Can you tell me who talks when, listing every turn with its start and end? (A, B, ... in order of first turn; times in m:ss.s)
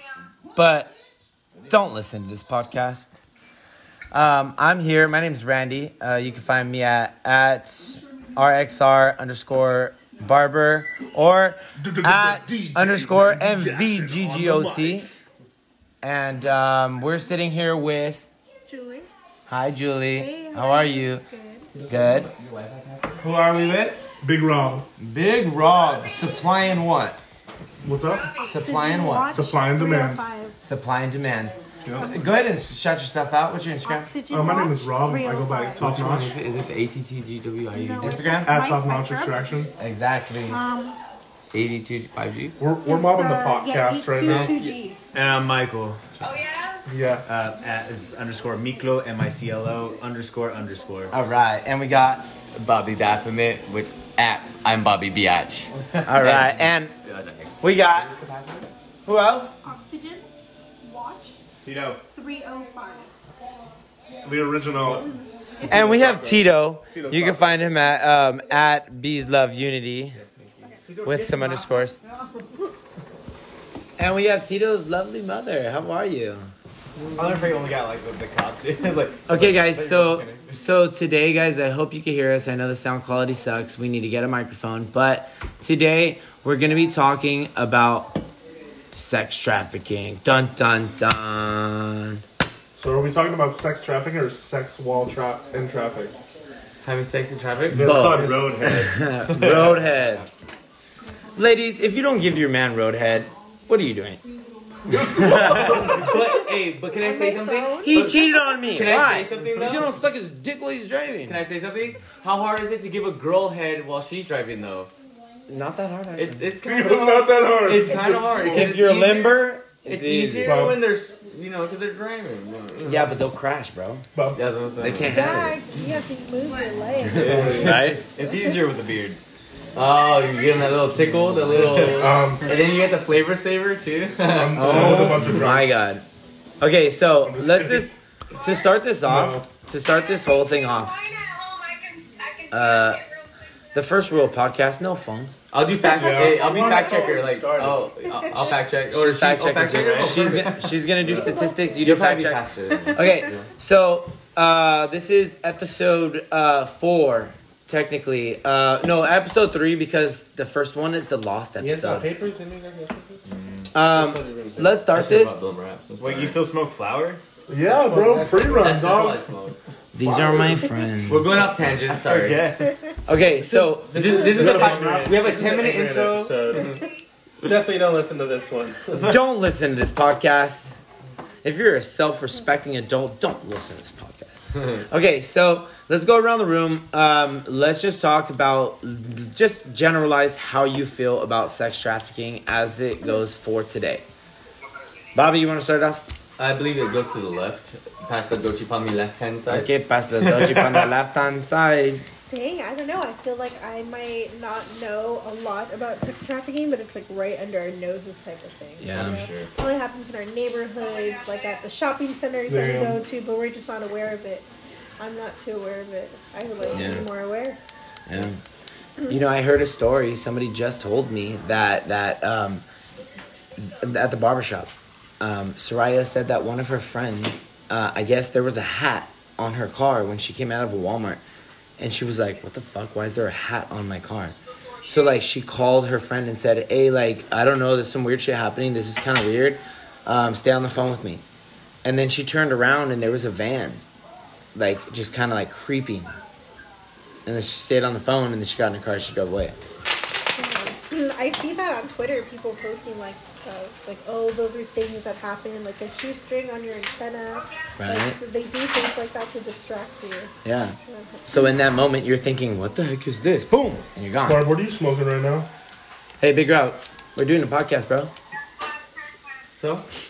0:00.5-0:00.9 A
0:01.6-0:03.2 A
0:04.1-0:15.1 A
0:11.8-0:15.1 B
0:16.0-0:18.3 A
0:18.7-0:19.1 C
0:19.5-0:21.2 A
0:20.1-0:21.7 C
0:21.8-0:23.2 D
0:21.9-0:22.3 A
0:23.2-0:24.0 A
0:24.2-0:24.9 B
0:25.0-0:27.2 A
0:27.8-0:28.4 B
0:28.4-0:29.4 A
0:28.4-0:30.6 C
0:29.3-0:30.2 B
0:30.6-0:34.1 A
0:33.8-0:35.8 C
0:34.3-0:36.4 B
0:35.8-0:38.2 D
0:37.7-0:39.4 C
0:38.0-0:38.5 A
0:38.4-0:39.7 B
0:39.8-0:40.6 A
0:40.5-0:41.0 C
0:41.5-0:42.6 D
0:42.6-0:44.7 B
0:42.8-0:45.0 C
0:44.3-0:44.5 E
0:45.1-0:46.0 E
0:46.9-0:47.3 B
0:47.2-0:51.1 E
0:51.1-0:52.3 A
0:52.5-0:57.6 D
0:55.8-0:56.2 E
0:56.0-0:56.9 A
0:57.6-0:58.1 A
0:57.9-0:58.7 E
0:59.0-0:59.6 A
0:59.6-1:00.3 C
1:00.8-1:01.4 C
1:01.6-1:02.0 E
1:02.1-1:03.1 C
1:04.2-1:05.1 B
1:04.8-1:05.1 E
1:05.7-1:10.2 A
1:05.7-1:06.4 E
1:06.9-1:07.3 E
1:10.1-1:10.7 D
1:10.9-1:11.6 E
1:11.0-1:12.0 A
1:14.0-1:16.5 A
1:17.1-1:20.5 E
1:19.3-1:28.2 A
1:28.9-1:32.2 A
1:32.8-1:36.2 B
1:36.8-1:38.1 D
1:37.7-1:39.0 B
1:37.7-1:40.3 A
1:37.8-1:38.9 F
1:39.3-1:40.2 E
1:41.4-1:44.2 A
1:44.9-1:46.1 B
1:44.9-1:46.1 A
1:45.8-1:49.9 D
1:46.9-1:48.4 C
1:47.8-1:51.4 A
1:51.2-1:54.9 D
1:55.5-1:56.5 A
1:56.2-2:03.2 D
1:56.6-1:58.8 B
1:58.5-2:00.7 A
2:00.4-2:00.8 B
2:02.9-2:04.0 A
2:04.3-2:05.2 D
2:04.8-2:05.6 A
2:05.0-2:07.6 C
2:07.0-2:09.2 E
2:07.1-2:07.9 D
2:07.2-2:07.8 B
2:07.6-2:08.0 A
2:08.2-2:08.6 C
2:09.7-2:15.2 D
2:11.5-2:11.9 E
2:11.5-2:12.6 B
2:14.2-2:15.8 B
2:14.6-2:16.0 A
2:16.6-2:21.3 A
2:17.2-2:17.9 B
2:19.0-2:19.4 B
2:22.5-2:23.0 A
2:23.7-2:25.4 A
2:25.5-2:30.5 D
2:25.8-2:27.3 B
2:26.2-2:27.9 E
2:28.1-2:28.6 C
2:28.9-2:42.1 A
2:29.6-2:30.6 E
2:31.2-2:31.6 C
2:31.8-2:33.4 D
2:41.6-2:43.2 F
2:43.3-2:43.6 E
2:43.7-2:45.4 A
2:43.7-2:44.7 F
2:44.9-2:46.4 D
2:46.0-2:47.2 E
2:47.5-2:49.2 B
2:47.8-2:52.5 D
2:47.9-2:48.6 F
2:49.9-2:51.5 A
2:51.9-2:52.8 E
2:53.0-2:54.1 A
2:53.4-2:55.2 E
2:53.9-2:56.7 D
2:54.0-2:55.8 B
2:54.3-2:56.8 F
2:57.4-2:59.1 F
2:58.9-3:00.8 A
3:01.4-3:14.0 A
3:15.1-3:16.0 A
3:16.4-3:19.7 D
3:19.5-3:22.0 A
3:20.2-3:20.9 E
3:22.3-3:34.4 C
3:28.8-3:29.2 A
3:28.9-3:29.5 D
3:32.5-3:33.0 B
3:35.0-3:37.6 C
3:36.7-3:37.0 A
3:38.1-3:38.4 A
3:39.1-3:42.6 A
3:43.6-3:51.2 A
3:51.8-4:01.2 A
4:01.8-4:03.8 A
4:04.5-4:06.1 A
4:07.2-4:09.6 A
4:10.3-4:20.3 C
4:17.8-4:18.2 A
4:20.4-4:24.5 A
4:20.9-4:21.2 C
4:24.2-4:25.5 B
4:26.2-4:28.1 A
4:29.5-4:29.8 D